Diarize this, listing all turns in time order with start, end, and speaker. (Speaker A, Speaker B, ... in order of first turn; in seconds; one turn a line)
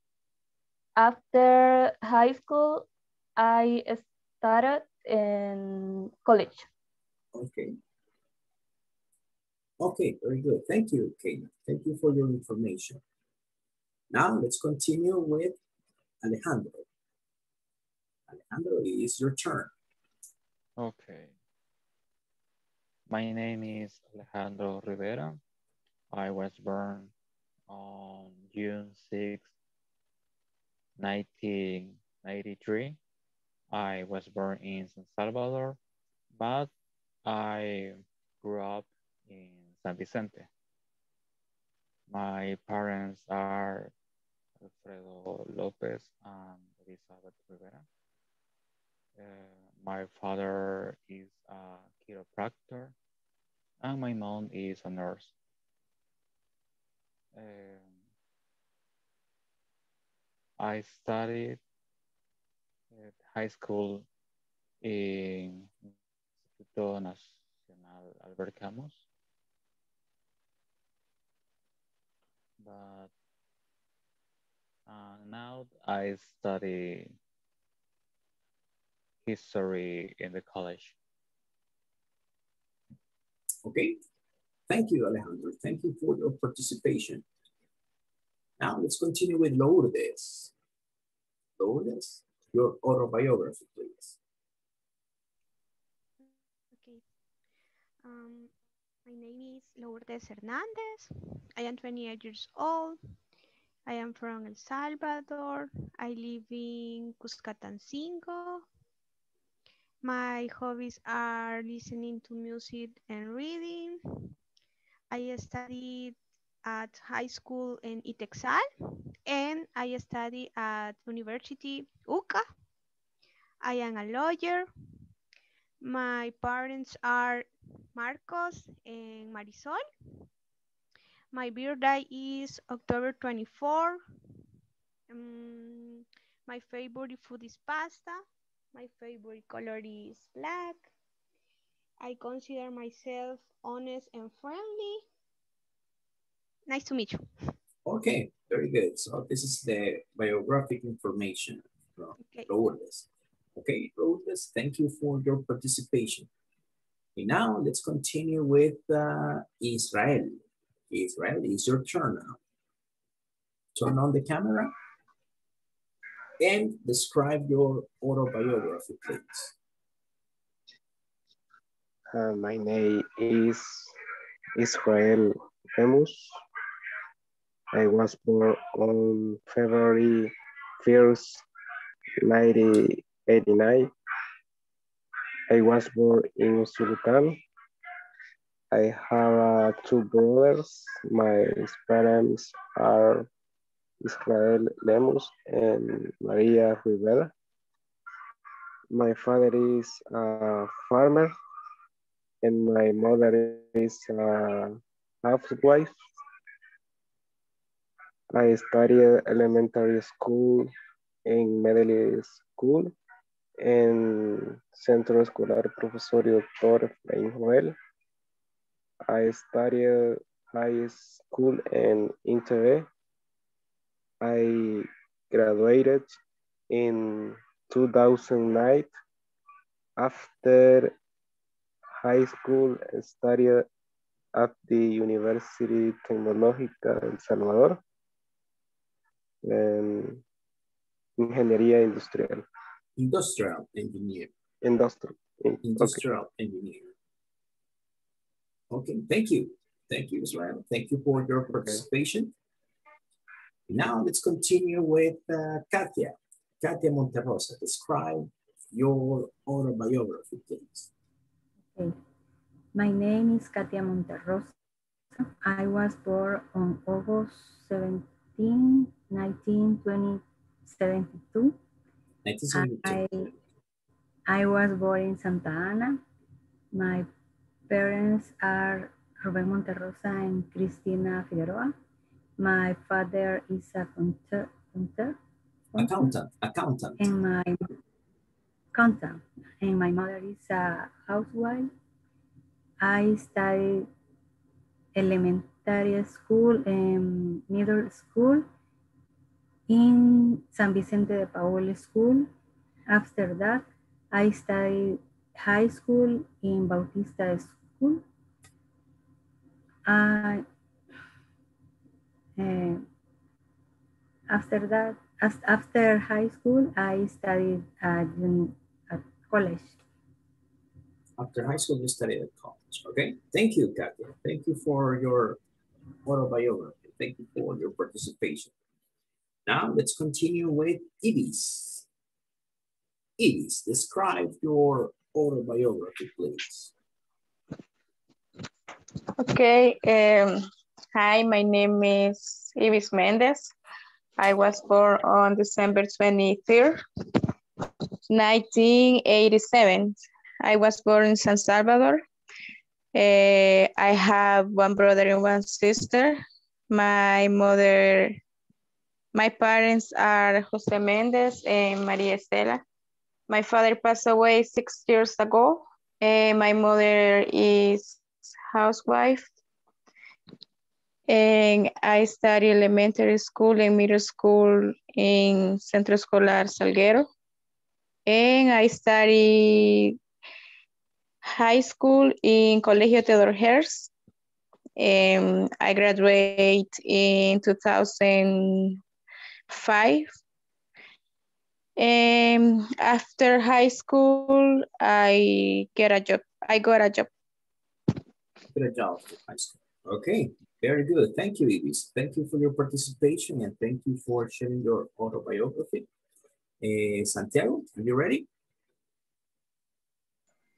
Speaker A: 1.0-6.7
Speaker B: 7.3-7.8
Speaker B: 9.8-13.0
Speaker B: 14.1-15.6
Speaker B: 16.2-16.9
Speaker B: 18.3-19.7
Speaker C: 20.8-21.4
Speaker C: 23.1-25.4
Speaker C: 26.1-27.1
Speaker C: 27.7-29.5
Speaker C: 31.0-33.0
Speaker C: 33.7-35.8
Speaker C: 36.4-36.7
Speaker C: 37.2-40.5
Speaker C: 42.1-43.9
Speaker C: 44.6-47.9
Speaker C: 49.2-53.0
Speaker C: 53.8-55.3
Speaker C: 57.3-58.0
Speaker C: 60.6-61.6
Speaker C: 62.9-64.1
Speaker C: 64.8-65.9
Speaker C: 66.6-69.0
Speaker C: 72.6-73.1
Speaker C: 74.9-77.2
Speaker C: 79.2-81.0
Speaker B: 83.6-84.0
Speaker B: 84.7-87.2
Speaker B: 88.6-90.5
Speaker B: 91.6-94.2
Speaker D: 96.2-97.0
Speaker D: 98.0-98.5
Speaker D: 99.1-103.0
Speaker D: 103.9-108.7
Speaker D: 110.0-114.0
Speaker D: 115.1-118.7
Speaker D: 119.3-122.4
Speaker D: 123.6-124.7
Speaker D: 125.8-129.8
Speaker D: 131.3-134.0
Speaker D: 135.1-138.2
Speaker D: 138.7-140.9
Speaker D: 142.0-145.1
Speaker D: 146.7-147.5
Speaker B: 147.8-156.3
Speaker D: 152.2-152.5
Speaker B: 157.2-162.4
Speaker B: 163.8-164.7
Speaker B: 166.4-169.6
Speaker E: 172.1-173.9
Speaker E: 174.6-176.3
Speaker E: 177.7-181.4
Speaker E: 182.2-183.9
Speaker E: 185.5-187.4
Speaker E: 188.7-193.3
Speaker E: 194.0-197.3
Speaker E: 198.9-201.3
Speaker E: 202.4-205.9
Speaker E: 208.3-210.7
Speaker E: 211.3-212.9
Speaker E: 213.6-217.8
Speaker E: 219.1-222.9
Speaker E: 224.2-226.1
Speaker E: 226.7-228.9
Speaker E: 230.0-230.9
Speaker E: 232.0-233.7
Speaker E: 234.3-237.8
Speaker E: 239.4-240.2
Speaker E: 241.2-242.4
Speaker B: 243.0-244.3
Speaker E: 244.6-246.0
Speaker B: 245.6-246.9
Speaker B: 248.7-252.3
Speaker B: 253.7-260.9
Speaker F: 262.8-264.6
Speaker F: 265.2-271.6
Speaker B: 272.2-273.1
Speaker F: 272.5-273.3
Speaker F: 274.3-276.0
Speaker F: 276.7-277.1
Speaker F: 277.7-281.7
Speaker F: 282.4-285.2
Speaker F: 285.7-286.1
Speaker B: 285.8-287.1
Speaker F: 287.0-287.6
Speaker F: 288.7-291.7
Speaker F: 292.8-293.9
Speaker F: 295.0-298.4
Speaker F: 299.7-302.3
Speaker F: 302.9-308.0
Speaker F: 309.9-310.4
Speaker F: 312.4-312.8
Speaker F: 314.3-319.8
Speaker B: 321.2-325.4
Speaker B: 326.1-328.5
Speaker B: 329.5-331.9
Speaker B: 333.2-336.7
Speaker D: 339.2-340.4
Speaker D: 340.9-343.5
Speaker D: 344.2-346.8
Speaker D: 348.1-352.0
Speaker D: 352.9-358.2
Speaker D: 359.1-362.6
Speaker D: 363.3-369.3
Speaker D: 371.1-377.1
Speaker D: 378.1-380.0
Speaker D: 381.2-383.9
Speaker D: 384.8-388.8
Speaker D: 389.5-390.1
Speaker D: 391.8-397.1
Speaker B: 398.5-405.9
Speaker B: 406.6-408.3